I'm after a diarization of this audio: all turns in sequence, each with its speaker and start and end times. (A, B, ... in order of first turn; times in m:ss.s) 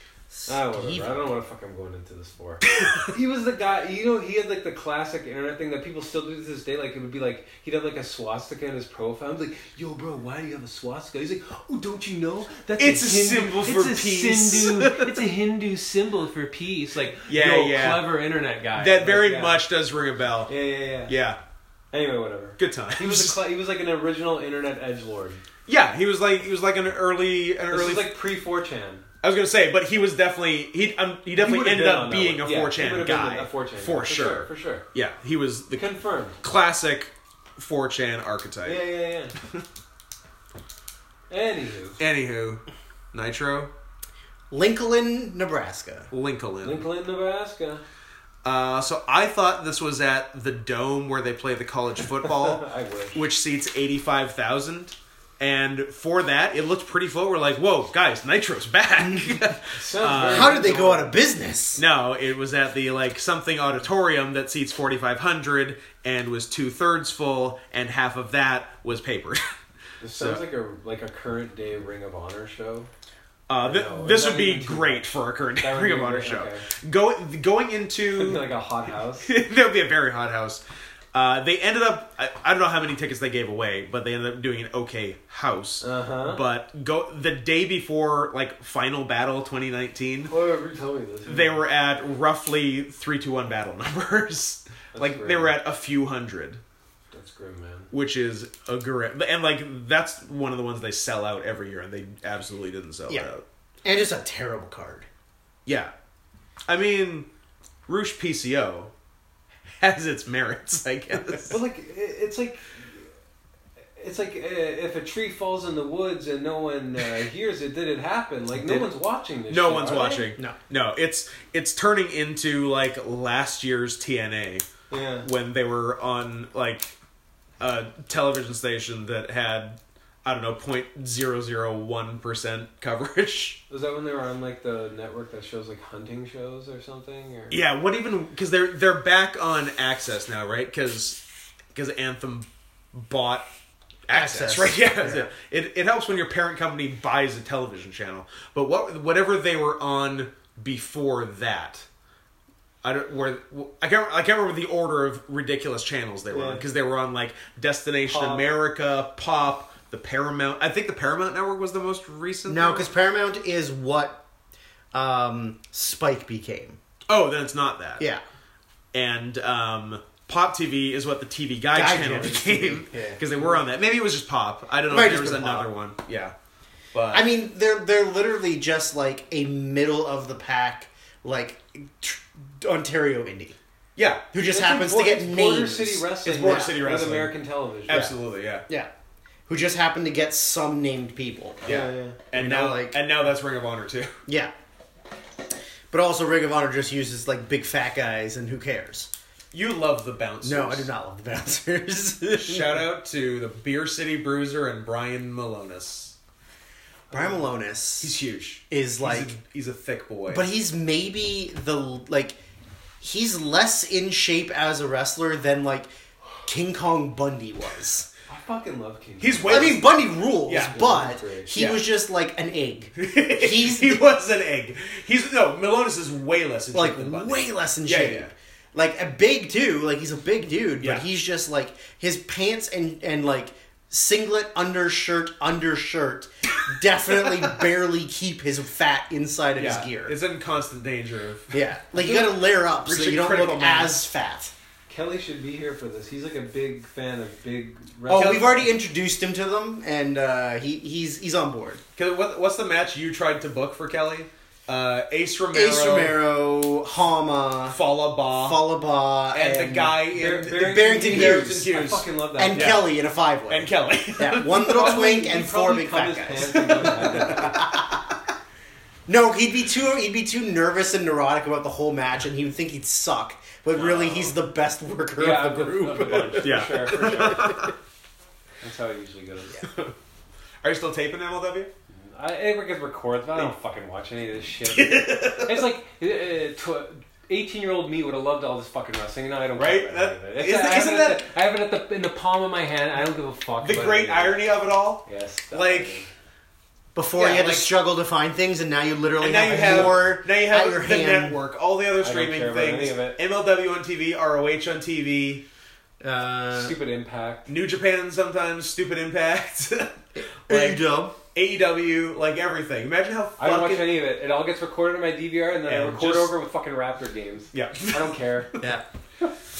0:00.3-0:01.2 A
0:00.5-0:19.6 B
0:02.7-0:03.1 C
0:12.8-0:15.2 C
0:17.3-0:18.2 C
0:18.8-0:20.5 C
0:20.5-0:21.1 B
0:21.0-0:21.4 C
0:21.9-0:25.4 B
0:22.6-0:23.4 C
0:25.6-0:28.1 C
0:27.7-0:29.0 B
0:29.2-0:35.8 C
0:31.3-0:34.8 B
0:35.7-0:36.4 B
0:36.4-0:38.8 C
0:38.6-0:39.3 B
0:41.3-0:42.0 B
0:42.0-0:43.7 C
0:44.5-0:46.1 A
0:46.1-0:46.9 C
0:46.6-0:47.8 B
0:48.4-1:00.6 C
0:52.2-0:53.2 B
0:59.7-1:01.1 B
1:00.2-1:01.8 A
1:01.8-1:09.5 C
1:10.0-1:12.9 B
1:10.1-1:10.4 C
1:13.5-1:18.5 C
1:13.6-1:15.0 B
1:15.6-1:16.6 B
1:18.1-1:19.3 B
1:19.2-1:20.6 C
1:21.1-1:30.3 C
1:25.8-1:26.4 B
1:30.3-1:31.6 B
1:31.3-1:36.6 C
1:34.9-1:35.5 B
1:37.1-1:37.9 B
1:37.9-1:43.4 C
1:43.8-1:45.1 A
1:45.6-1:45.9 C
1:46.7-1:47.3 C
1:47.9-1:48.9 C
1:49.8-1:51.6 C
1:51.5-1:53.0 B
1:54.0-2:00.3 B
1:58.5-1:58.9 C
1:59.5-2:04.6 C
2:04.9-2:05.3 B
2:05.2-2:06.9 C
2:07.6-2:13.6 C
2:13.7-2:17.6 B
2:17.5-2:21.2 C
2:21.7-2:23.4 C
2:24.1-2:31.8 C
2:24.1-2:25.3 A
2:32.8-2:42.9 C
2:36.3-2:36.6 B
2:38.1-2:38.4 B
2:42.5-2:44.2 A
2:44.9-2:46.8 A
2:47.1-2:48.1 C
2:48.9-2:56.3 C
2:51.7-2:53.2 A
2:54.9-2:55.7 A
2:56.9-2:57.2 C
2:57.1-3:03.6 A
3:04.0-3:04.2 C
3:04.3-3:06.8 A
3:04.4-3:08.1 B
3:06.2-3:08.6 C
3:07.9-3:08.1 A
3:09.5-3:13.0 A
3:11.6-3:14.1 C
3:11.6-3:12.2 B
3:14.3-3:14.5 A
3:15.9-3:19.1 A
3:19.5-3:20.9 C
3:20.4-3:22.8 A
3:22.4-3:26.1 C
3:27.1-3:28.1 A
3:28.0-3:30.5 C
3:28.7-3:29.3 A
3:30.3-3:32.4 A
3:33.0-3:35.9 A
3:36.4-3:38.1 A
3:38.3-3:39.8 B
3:39.2-3:40.8 C
3:39.4-3:44.0 A
3:40.6-3:41.5 B
3:41.5-3:41.8 C
3:43.0-3:48.3 C
3:46.7-4:00.2 A
3:59.6-4:04.0 C
4:01.5-4:04.5 A
4:04.9-4:08.7 B
4:08.1-4:11.8 A
4:08.1-4:08.6 C
4:12.0-4:16.2 C
4:15.5-4:17.8 A
4:17.7-4:18.7 C
4:18.3-4:21.7 A
4:19.3-4:22.9 C
4:20.1-4:22.8 B
4:22.4-4:27.9 A
4:23.5-4:25.1 C
4:24.6-4:27.7 B
4:26.8-4:27.6 C
4:29.1-4:37.7 A
4:33.8-4:34.3 B
4:35.2-4:37.6 B
4:36.4-4:37.7 C
4:38.6-4:39.7 B
4:39.6-4:39.9 C
4:40.6-4:41.7 C
4:41.9-4:54.5 B
4:44.7-4:45.7 C
4:49.6-4:51.3 C
4:53.6-4:55.9 C
4:55.0-4:56.1 B
4:56.9-5:01.4 A
4:57.2-4:57.7 C
4:59.2-5:05.4 C
4:59.6-4:59.8 B
5:02.0-5:03.2 B
5:06.0-5:06.8 A
5:06.5-5:07.5 B
5:07.5-5:10.8 C
5:10.2-5:11.1 A
5:11.3-5:14.0 C
5:13.4-5:18.5 B
5:15.7-5:16.3 C
5:17.5-5:18.6 C